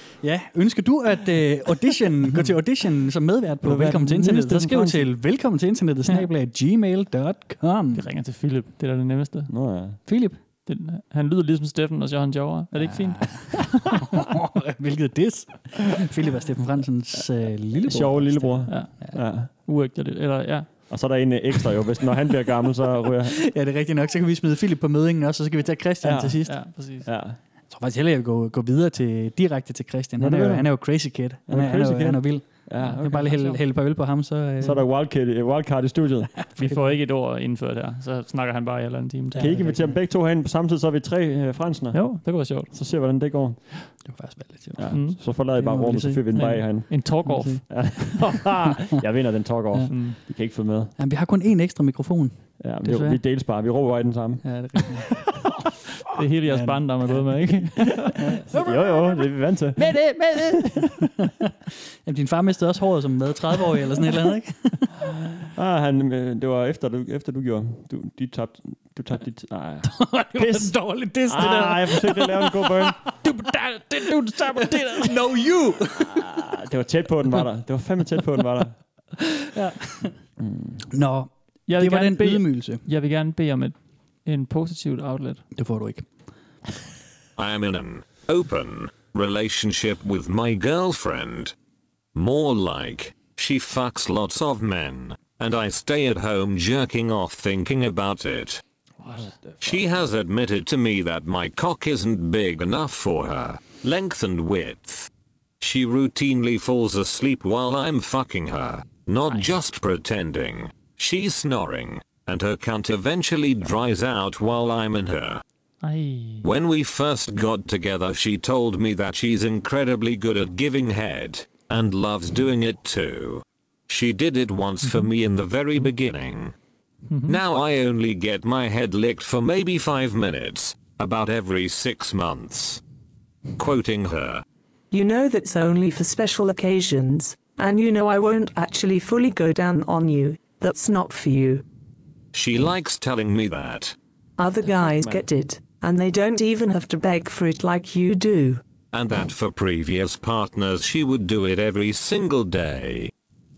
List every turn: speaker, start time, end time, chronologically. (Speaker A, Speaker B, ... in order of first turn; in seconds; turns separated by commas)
Speaker A: 0.2-8.0, Speaker B: 3.6-5.1, Speaker C: 7.9-9.5, Speaker B: 9.5-10.0, Speaker A: 10.1-10.4, Speaker C: 10.7-13.9, Speaker A: 12.8-19.2, Speaker B: 17.9-19.5, Speaker C: 18.7-20.9, Speaker B: 20.9-23.4, Speaker A: 23.3-26.6, Speaker B: 26.0-27.4, Speaker C: 26.4-27.1, Speaker A: 27.7-34.9, Speaker B: 30.2-30.7, Speaker B: 31.5-33.3, Speaker C: 32.8-33.6, Speaker B: 34.6-36.5, Speaker A: 36.5-36.8, Speaker C: 36.5-39.6, Speaker A: 39.3-40.0, Speaker B: 39.4-44.0, Speaker C: 41.9-42.7, Speaker A: 44.0-48.4, Speaker B: 44.8-50.9, Speaker C: 44.9-45.2, Speaker C: 46.3-47.6, Speaker A: 49.7-50.3, Speaker C: 49.9-50.2, Speaker A: 51.0-53.2, Speaker B: 52.6-54.6, Speaker A: 54.4-55.3, Speaker C: 56.1-58.1, Speaker A: 56.5-59.3, Speaker B: 58.5-60.9, Speaker A: 61.2-61.5, Speaker A: 62.0-64.9, Speaker B: 65.5-73.1, Speaker A: 69.8-76.3, Speaker B: 76.0-78.8, Speaker A: 79.5-80.1, Speaker B: 80.4-80.8, Speaker A: 80.9-82.8, Speaker C: 81.7-85.5, Speaker A: 85.5-86.1, Speaker D: 87.4-91.5, Speaker D: 92.2-98.6, Speaker B: 99.0-99.9, Speaker D: 99.6-105.1, Speaker D: 105.6-115.4, Speaker C: 109.3-109.6, Speaker C: 115.8-116.5, Speaker D: 116.4-126.5, Speaker C: 127.1-127.4, Speaker D: 127.3-132.8, Speaker D: 133.6-134.4, Speaker E: 134.9-141.6, Speaker D: 142.3-144.0, Speaker E: 144.4-148.6, Speaker B: 144.7-145.2, Speaker D: 148.9-153.1